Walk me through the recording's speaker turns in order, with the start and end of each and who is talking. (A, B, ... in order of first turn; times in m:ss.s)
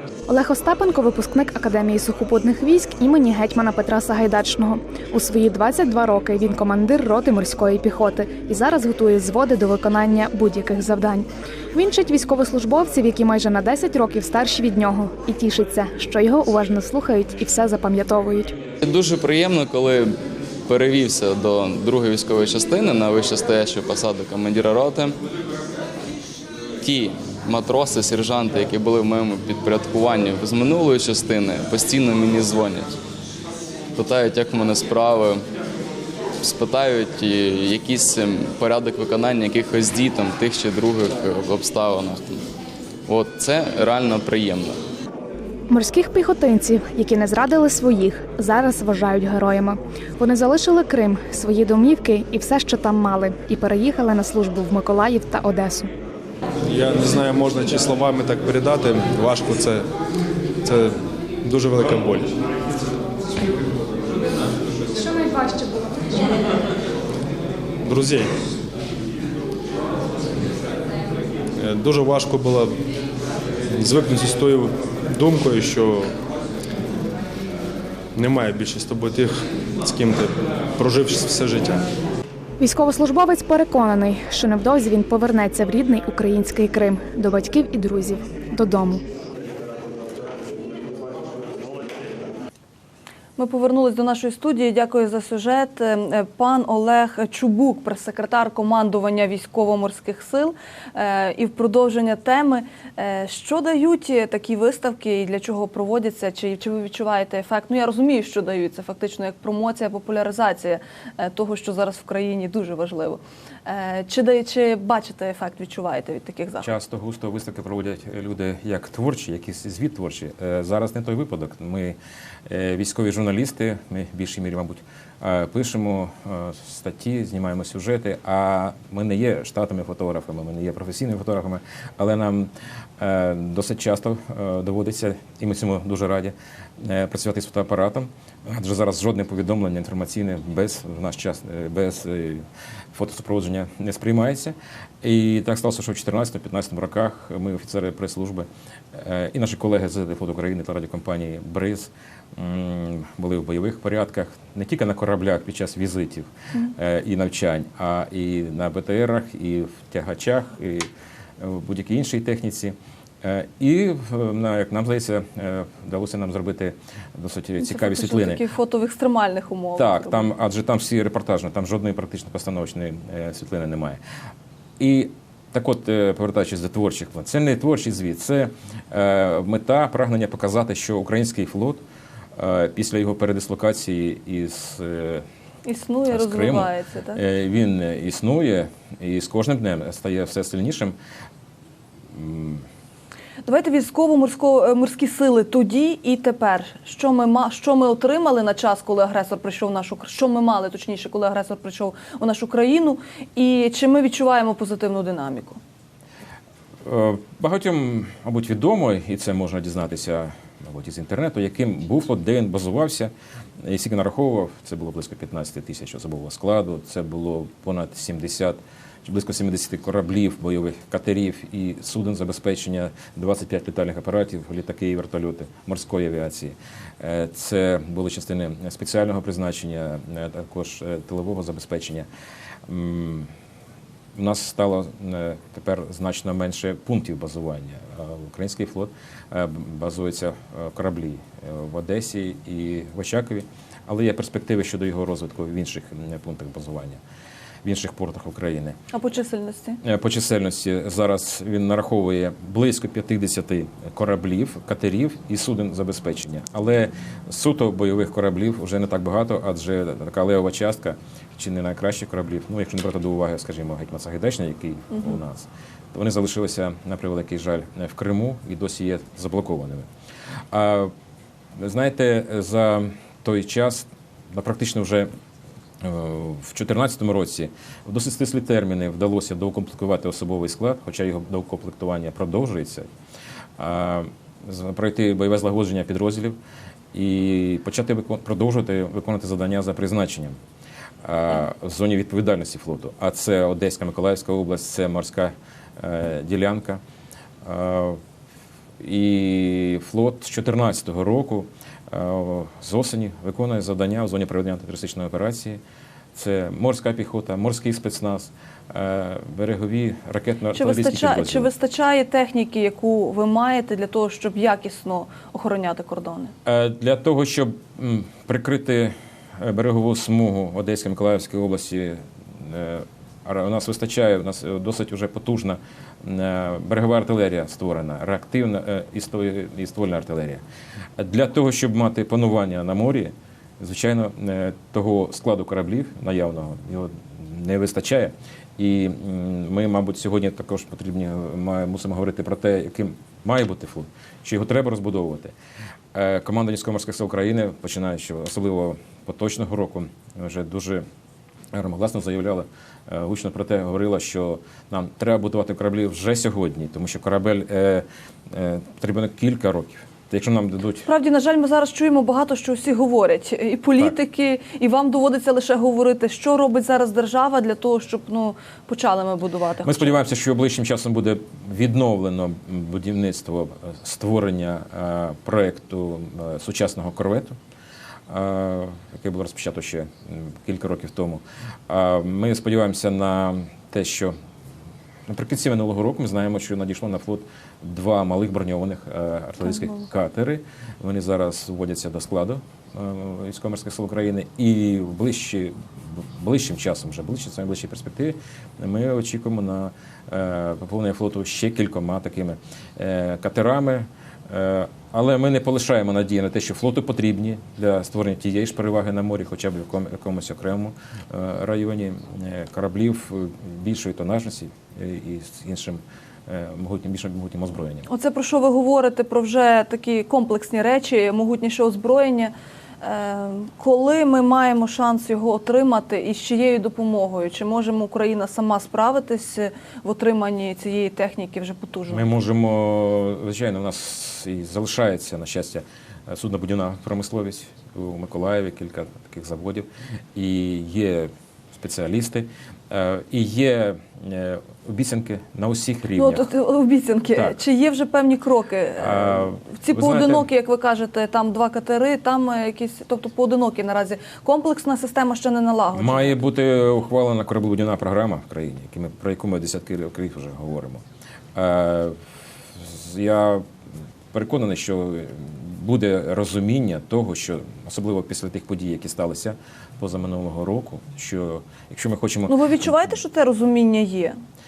0:00.3-0:18.6 A
0:18.8-0:25.2 B
0:26.8-0:33.0 B
0:34.0-0:35.4 B
0:36.4-0:42.5 B
0:43.1-0:44.8 B
0:45.7-0:55.9 A
0:56.6-0:59.9 C
1:00.6-1:02.3 C
1:05.0-1:06.3 A
1:07.8-1:08.3 C
1:11.6-1:12.8 C
1:13.7-1:16.1 C
1:18.2-1:21.8 C
1:22.6-1:29.0 A
1:33.4-1:56.7 D
1:56.6-2:02.0 E
2:02.5-2:40.9 E
2:41.4-2:48.4 E
2:47.6-2:50.3 D
2:49.8-2:54.0 E
2:54.8-3:01.8 E
3:02.4-3:05.2 E
3:05.6-3:07.2 D
3:06.1-3:11.0 E
3:12.1-3:12.6 E
3:13.4-3:25.6 D
3:26.8-3:33.1 E
3:33.6-3:52.1 E
3:52.7-3:53.3 E
3:54.2-4:07.0 E
4:07.6-4:08.8 E
4:08.9-4:09.8 D
4:09.8-4:29.9 E
4:30.5-4:30.9 E
4:31.6-4:35.1 E
4:35.8-4:42.9 E
4:43.6-4:46.4 E
4:46.9-4:50.4 E
4:51.0-4:56.8 E
4:57.4-4:58.0 E
4:58.8-5:05.6 E
5:06.2-5:11.5 E
5:10.5-5:16.3 D
5:16.4-5:30.4 E
5:31.0-5:45.3 E
5:45.9-5:50.8 E
5:51.5-6:00.9 E
6:00.8-6:10.0 D
6:09.6-6:17.4 E
6:18.1-6:24.1 E
6:25.1-6:57.9 E
6:57.9-7:12.1 D
7:11.9-7:26.3 E
7:25.9-7:36.2 D
7:27.1-7:27.4 E
7:28.8-7:30.3 E
7:35.7-7:40.8 E
7:41.4-7:42.0 E
7:42.6-7:43.4 E
7:44.1-7:52.9 E
7:52.3-7:54.2 D